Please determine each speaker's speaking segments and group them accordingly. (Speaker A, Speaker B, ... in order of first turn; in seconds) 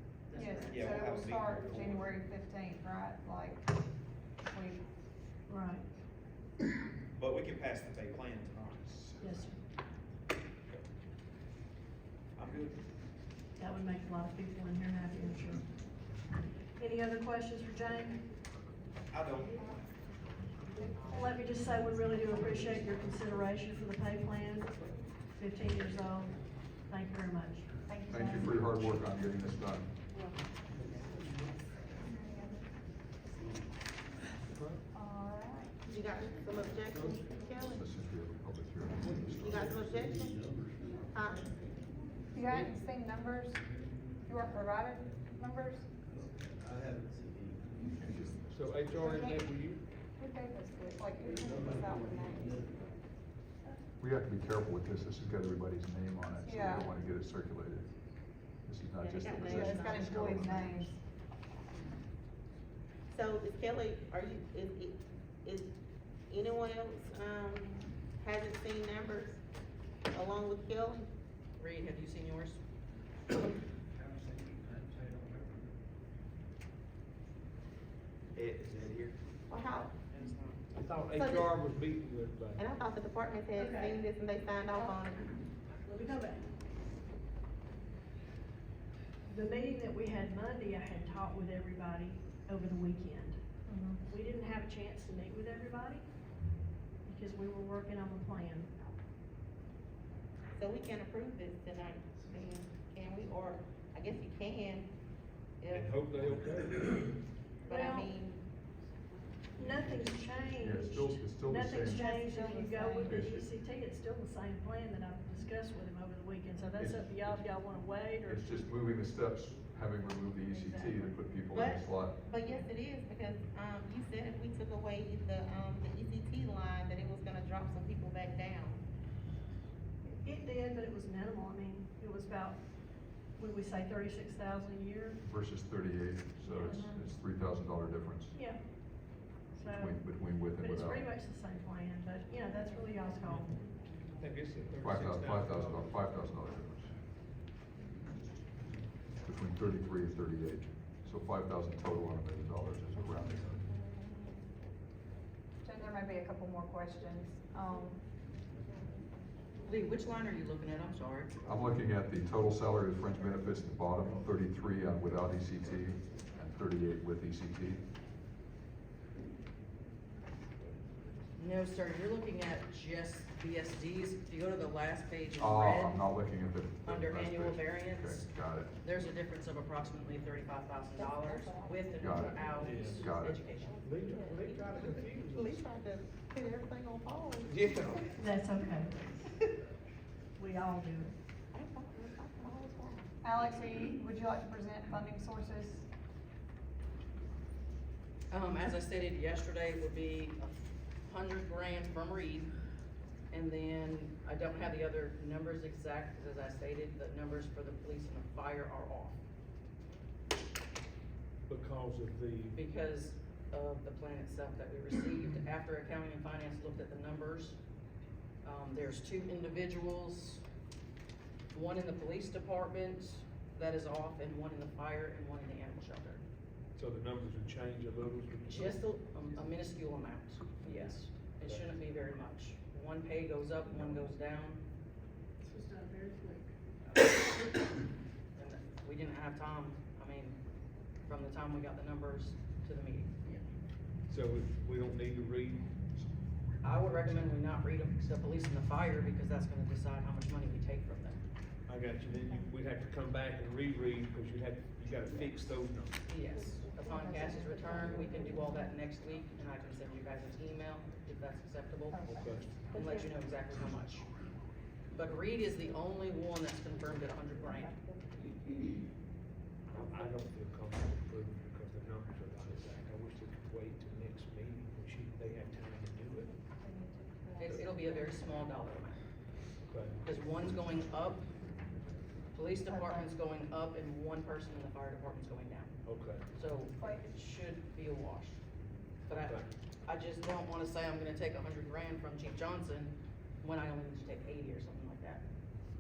Speaker A: 0.3-1.0, 35.9-37.8, 39.4-40.4, 41.1-41.6, 59.0-60.4, 63.1-65.7, 66.3-69.4, 70.1-71.1, 79.5-80.0, 81.1-81.5, 82.6-85.3, 100.6-104.9, 105.6-106.1, 107.6-108.4, 121.5-128.8, 181.0-188.0, 191.5-193.1
Speaker B: 0.3-3.6, 4.5-4.8, 27.8-28.8, 32.0-32.6, 34.9-35.8, 42.3-43.7, 44.2-45.9, 48.9-49.5, 50.1-52.7, 56.4-56.9, 59.2-61.0, 111.8-113.2, 136.5-137.1, 155.6-158.0, 193.2-195.9, 261.9-262.3, 276.5-278.1, 282.7-283.0
Speaker C: 0.7-2.1, 7.2-9.1, 12.3-12.8, 19.1-19.6, 74.2-75.4, 78.3-79.2
Speaker D: 5.5-5.9, 9.2-9.6, 13.6-15.7, 16.8-18.2, 21.1-24.7, 25.3-27.7, 83.5-84.0, 84.7-85.0, 85.8-86.5, 89.3-96.1, 97.0-98.7, 107.7-108.1, 109.5-118.7, 120.5-121.2, 130.1-135.2, 138.3-143.6, 188.2-189.2, 190.4-191.1, 235.4-236.5
Speaker E: 9.1-9.4, 28.1-29.9, 37.7-39.7, 47.9-48.7, 54.0-57.9, 58.6-60.9, 110.6-112.1, 113.0-113.5, 116.8-117.5, 118.2-122.1, 135.2-138.3, 139.7-141.0, 144.8-146.9, 149.2-153.7, 161.4-167.8, 175.4-178.7, 182.0-183.4
Speaker F: 34.5-34.8, 48.5-49.8, 80.7-82.7, 105.7-107.1, 143.3-145.9, 182.6-183.1, 183.8-185.6, 187.4-188.1, 211.4-212.6, 226.8-228.8, 230.6-231.7, 233.7-234.0, 244.1-245.7, 251.7-255.9, 262.0-262.8, 269.7-276.3, 279.7-280.1, 285.8-286.2, 289.2-289.5
Speaker G: 71.6-72.6, 80.1-80.6, 159.6-161.3, 171.4-176.0, 176.8-183.8, 198.3-202.5, 203.3-209.2, 212.5-217.6, 218.4-220.4, 221.5-226.2, 228.5-234.6, 236.9-237.3, 238.3-240.3, 241.0-243.2, 246.6-251.2, 256.1-262.0, 262.7-264.1, 264.9-267.7, 277.4-279.0, 280.0-281.3, 282.3-285.7, 286.3-288.4, 289.1-295.2